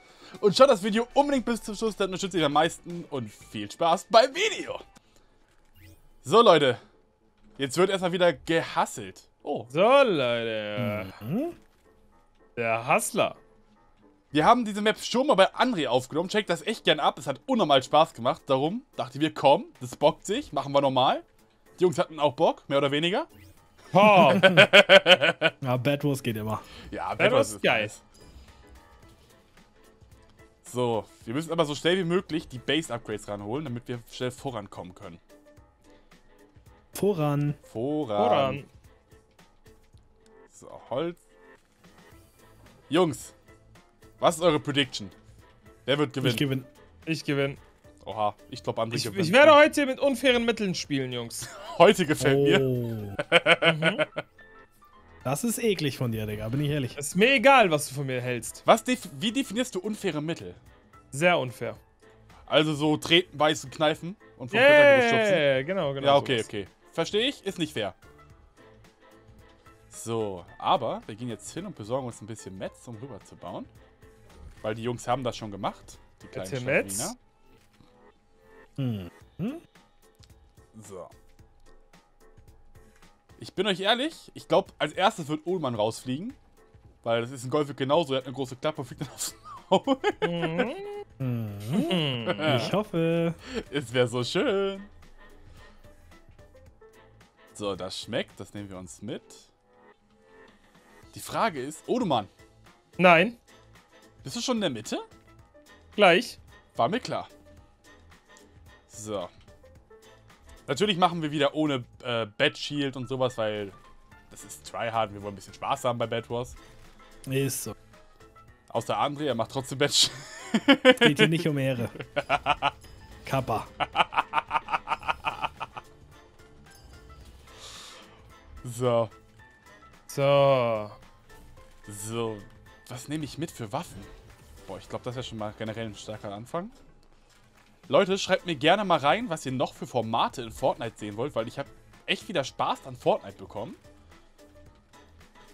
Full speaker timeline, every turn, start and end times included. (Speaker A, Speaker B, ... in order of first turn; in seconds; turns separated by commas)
Speaker A: 0.4-4.8, Speaker A: 6.2-6.8, Speaker A: 7.6-9.7, Speaker B: 9.7-11.1, Speaker C: 10.8-11.6, Speaker B: 12.6-13.4, Speaker A: 14.3-21.2, Speaker A: 21.8-23.3, Speaker B: 23.9-24.5, Speaker C: 24.2-24.7, Speaker A: 24.2-25.5, Speaker C: 25.6-26.6, Speaker A: 26.9-28.0, Speaker B: 27.2-27.9, Speaker A: 30.6-35.2, Speaker C: 36.9-37.6, Speaker A: 37.7-38.6, Speaker B: 38.2-38.7, Speaker A: 40.5-41.2, Speaker A: 42.9-43.3, Speaker A: 44.2-45.1, Speaker A: 45.9-46.5, Speaker C: 46.2-46.7, Speaker B: 47.1-47.6, Speaker A: 48.0-49.6, Speaker B: 48.9-51.5, Speaker A: 51.5-52.7, Speaker C: 52.2-53.2, Speaker A: 53.2-54.2, Speaker B: 53.6-54.1, Speaker C: 55.2-57.0, Speaker B: 57.0-58.6, Speaker A: 58.6-60.6, Speaker B: 61.1-61.8, Speaker A: 62.5-65.4, Speaker B: 64.5-66.5, Speaker A: 66.0-68.0, Speaker A: 69.9-73.7, Speaker A: 74.6-77.2, Speaker B: 76.3-77.1, Speaker C: 78.8-79.6, Speaker A: 80.7-81.1, Speaker A: 83.4-86.4, Speaker A: 87.0-90.7, Speaker B: 90.2-91.0, Speaker C: 91.2-93.4, Speaker B: 91.8-92.7, Speaker A: 92.3-92.7, Speaker A: 93.7-94.9, Speaker A: 97.5-99.5, Speaker A: 101.1-102.3, Speaker B: 103.0-103.4, Speaker A: 104.2-105.0, Speaker B: 106.0-106.4, Speaker A: 106.8-107.3, Speaker A: 108.9-109.3, Speaker A: 110.7-113.8, Speaker A: 114.3-116.6, Speaker C: 117.3-117.8, Speaker A: 118.7-121.5, Speaker C: 121.0-121.9, Speaker A: 122.1-122.7, Speaker C: 123.2-123.7, Speaker A: 124.0-124.4, Speaker A: 128.6-129.1, Speaker B: 130.1-131.0, Speaker A: 131.9-134.1, Speaker A: 134.7-136.7, Speaker A: 137.9-143.8